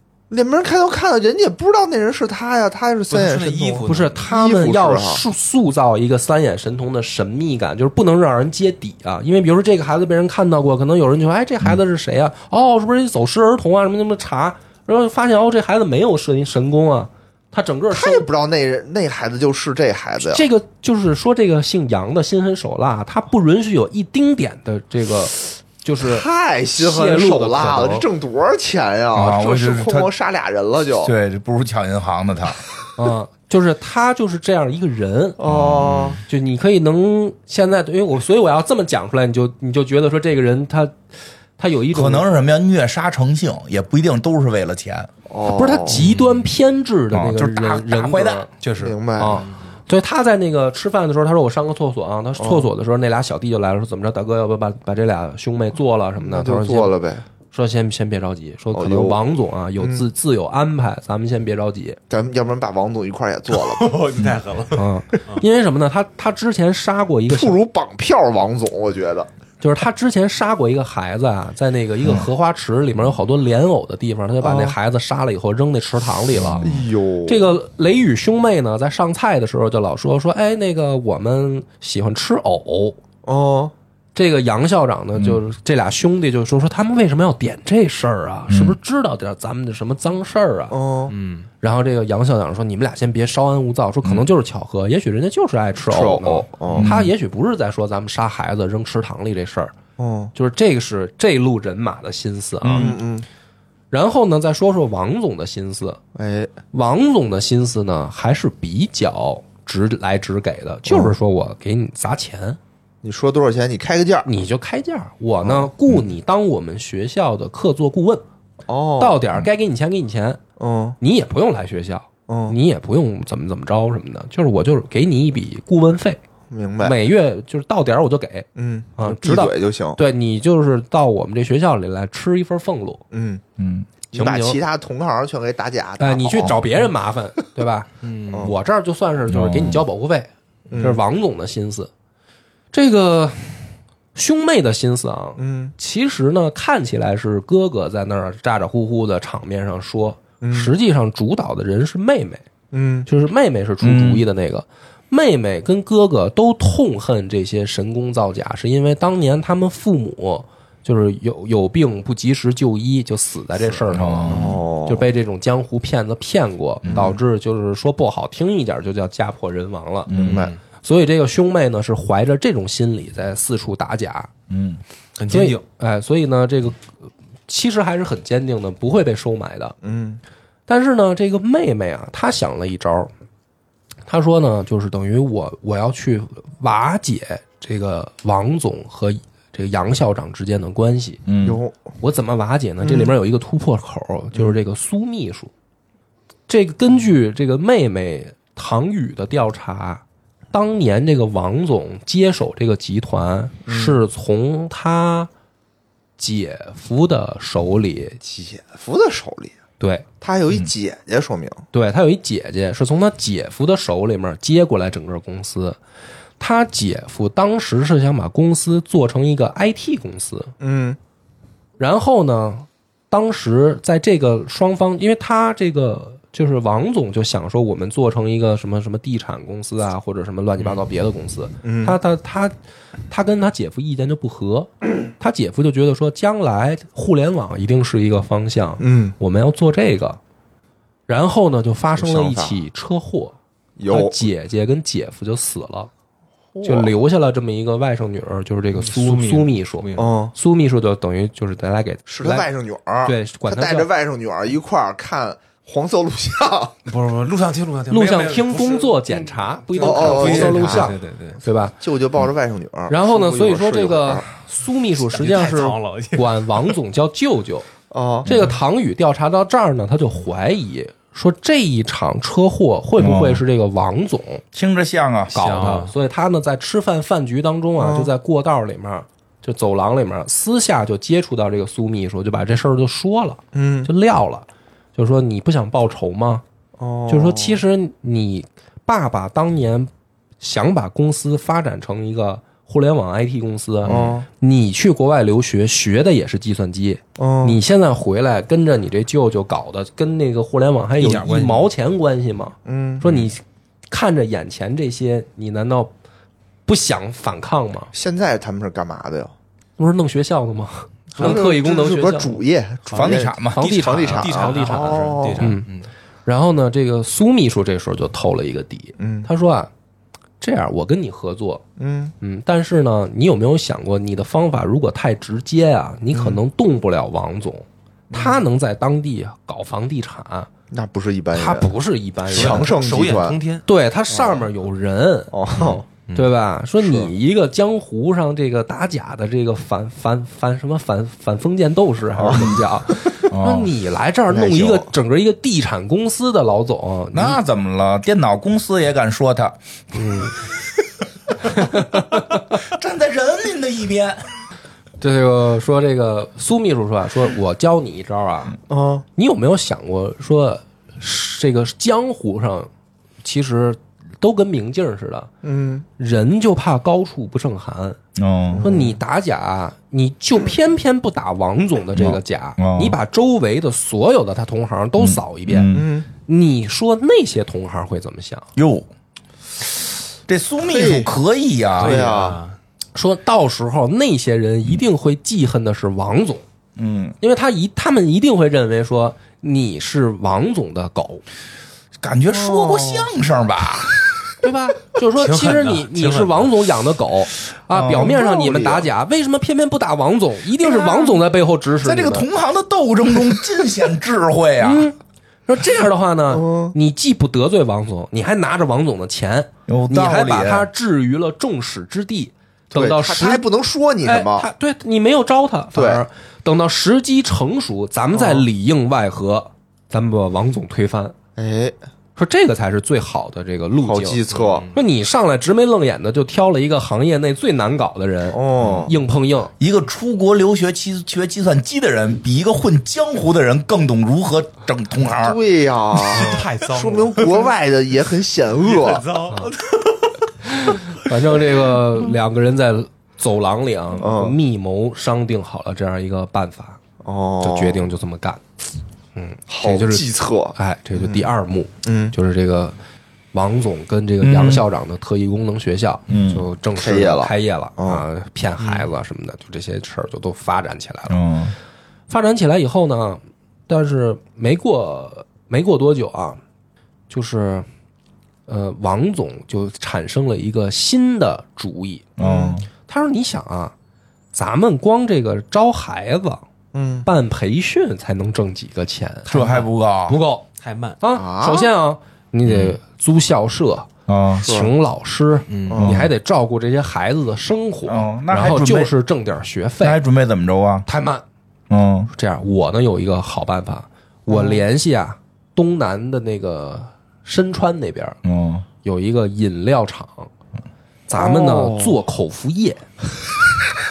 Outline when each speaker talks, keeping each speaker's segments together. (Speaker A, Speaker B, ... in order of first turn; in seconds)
Speaker A: 0.3-5.2, 17.9-20.4, 26.0-31.1, 35.4-36.2, 45.3-46.1, 48.8-49.5, 52.4-52.7, 56.2-57.2, 58.7-59.2, 59.8-60.0, 62.1-64.0, 67.3-69.3, 74.4-74.8, 76.6-77.5, 83.2-83.7, 90.7-91.1, 95.9-96.9, 100.0-100.3, 102.6-103.3, 106.1-106.5, 110.8-111.1, 113.0-114.3, 115.4-115.7, 118.7-119.2, 120.6-121.0, 122.3-122.5, 126.5-127.0, 128.6-130.0, 133.1-133.4, 134.1-136.7, 140.7-141.0, 145.4-145.7, 150.4-150.7, 152.7-153.1, 164.2-165.1, 166.9-167.2, 170.1-170.5, 179.8-180.2, 191.4-191.8, 192.8-193.1, 203.7-204.0, 208.2-209.5, 210.2-211.6, 220.6-221.0, 231.6-232.0, 238.8-239.1, 241.9-242.6, 243.8-244.2, 246.5-246.9, 249.9-250.3, 252.1-256.7, 259.8-260.9, 261.8-264.2, 267.9-268.5, 277.8-278.1, 283.5-283.9, 286.8-287.6, 293.8-294.2, 297.2-297.6, 302.6-303.0, 307.9-309.3, 311.2-315.6, 319.0-319.3, 321.8-322.1, 326.1-326.4, 328.1-328.4, 330.7-331.7, 332.3-333.4, 334.1-334.4, 335.3-335.8, 336.8-337.1, 342.1-343.2, 344.3-344.9, 358.7-359.0, 365.4-365.9, 368.5-369.0, 375.7-376.1, 380.6-381.1, 381.8-382.4, 392.3-393.1, 397.9-398.9, 406.3-406.7, 412.7-414.5, 415.7-416.0, 418.1-418.5, 421.4-421.8, 423.8-424.7, 428.3-428.9, 435.2-439.0, 444.0-444.4, 447.0-447.9, 449.5-451.3, 451.8-452.1, 456.8-458.0, 472.2-472.6, 476.7-477.1, 481.1-481.7, 484.4-484.7, 485.7-486.1, 494.3-494.6, 501.1-502.0
Speaker B: 3.1-4.3, 45.9-46.5, 48.6-49.6, 63.5-65.4, 91.1-91.5, 138.0-138.5, 170.1-170.6, 175.2-175.6, 248.8-250.1, 256.9-261.4, 265.1-266.7, 275.3-275.9, 293.9-294.1, 301.0-301.7, 312.9-315.9, 332.3-333.6, 381.8-382.6, 395.2-396.5, 424.3-424.8, 436.0-437.5, 438.6-439.9, 458.6-458.9, 480.6-481.0, 485.5-485.9
Speaker C: 3.9-18.3, 20.2-28.1, 33.0-35.4, 36.2-41.0, 41.6-42.3, 45.5-48.5, 49.2-56.9, 57.5-62.0, 64.7-67.6, 69.6-83.0, 84.1-90.8, 91.6-99.7, 100.3-103.0, 103.9-106.0, 106.7-112.6, 114.2-118.2, 119.0-120.4, 121.0-126.2, 126.8-133.0, 134.1-134.6, 136.0-141.9, 142.7-152.4, 153.1-170.1, 170.8-174.3, 175.3-179.8, 180.7-183.1, 184.1-191.2, 192.0-195.5, 196.5-205.3, 206.2-208.2, 209.8-210.0, 211.7-215.8, 216.4-220.5, 221.8-232.5, 233.1-240.2, 241.1-243.3, 243.9-245.9, 246.6-252.5, 253.0-253.9, 257.9-261.8, 262.9-267.7, 268.2-274.4, 275.3-286.4, 287.1-305.9, 306.7-307.9, 309.8-312.4, 313.5-315.7, 316.2-319.7, 320.4-321.6, 322.2-330.5, 331.3-332.7, 333.6-347.4, 349.9-350.4, 351.5-352.4, 355.0-358.6, 359.1-362.7, 363.2-365.3, 366.0-368.0, 368.6-375.7, 376.2-378.5, 382.9-386.4, 387.2-391.2, 394.4-402.3, 404.6-413.4, 414.0-421.1, 422.1-424.2, 424.7-429.5, 439.3-439.5, 440.4-446.8, 447.4-448.4, 449.1-452.7, 453.3-461.2, 462.1-466.4, 467.1-467.7, 468.5-472.1, 472.8-473.7, 474.3-476.4, 477.0-480.4, 481.0-483.9, 484.4-490.0, 490.9-491.2, 492.1-498.2, 498.8-500.3, 501.1-502.9
Speaker D: 29.1-30.1, 31.0-32.7, 35.4-36.2, 41.9-45.1, 47.1-48.5, 76.3-76.7, 88.5-88.8, 96.7-97.1, 133.6-133.9, 139.3-139.8, 153.8-154.2, 163.9-164.6, 170.1-170.4, 174.5-174.8, 191.3-191.6, 273.0-273.4, 274.5-275.3, 312.9-313.6, 343.3-343.7, 347.1-350.5, 351.4-354.3, 368.2-368.6, 371.9-373.0, 375.0-375.9, 378.6-378.9, 380.3-382.0, 386.8-387.1, 392.0-394.3, 397.7-398.2, 400.8-401.1, 401.8-404.9, 409.7-410.7, 428.6-428.9, 429.6-435.4, 454.2-454.6, 456.1-456.5, 461.1-461.5, 472.2-472.7, 479.3-480.2, 482.4-482.8, 484.1-484.5, 485.8-486.1, 487.9-488.9, 489.8-490.9, 491.7-492.1, 498.2-498.6